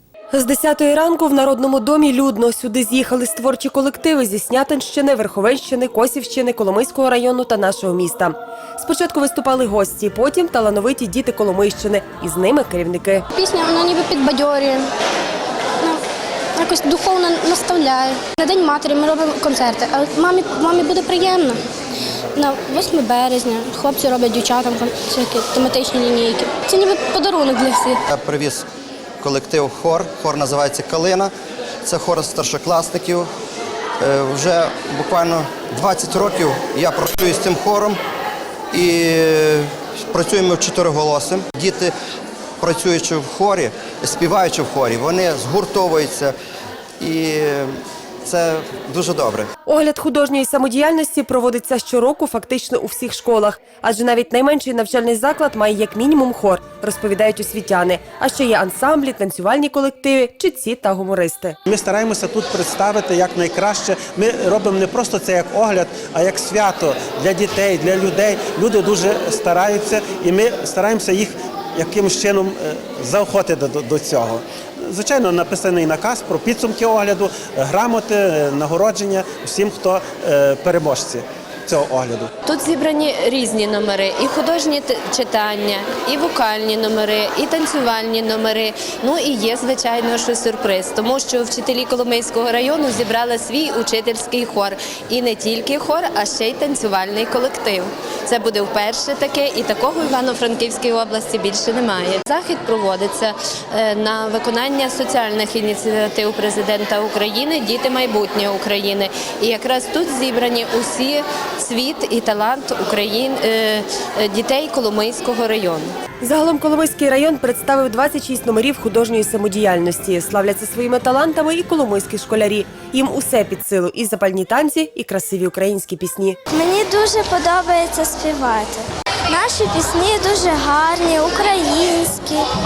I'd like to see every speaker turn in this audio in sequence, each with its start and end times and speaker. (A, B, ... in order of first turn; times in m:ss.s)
0:00.3-0:08.3 A
0:08.8-0:13.2 A
0:13.3-0:14.9 B
0:16.6-0:21.6 B
0:22.4-0:28.0 B
0:28.1-0:28.7 C
0:29.2-0:31.3 C
0:31.8-0:33.3 C
0:34.0-0:38.0 C
0:38.7-0:41.9 C
0:42.6-0:46.3 C
0:47.0-0:49.5 C
0:49.8-1:01.6 A
1:01.7-1:22.3 D
1:22.4-1:55.9 E
1:56.2-2:06.3 A
2:06.5-2:12.5 F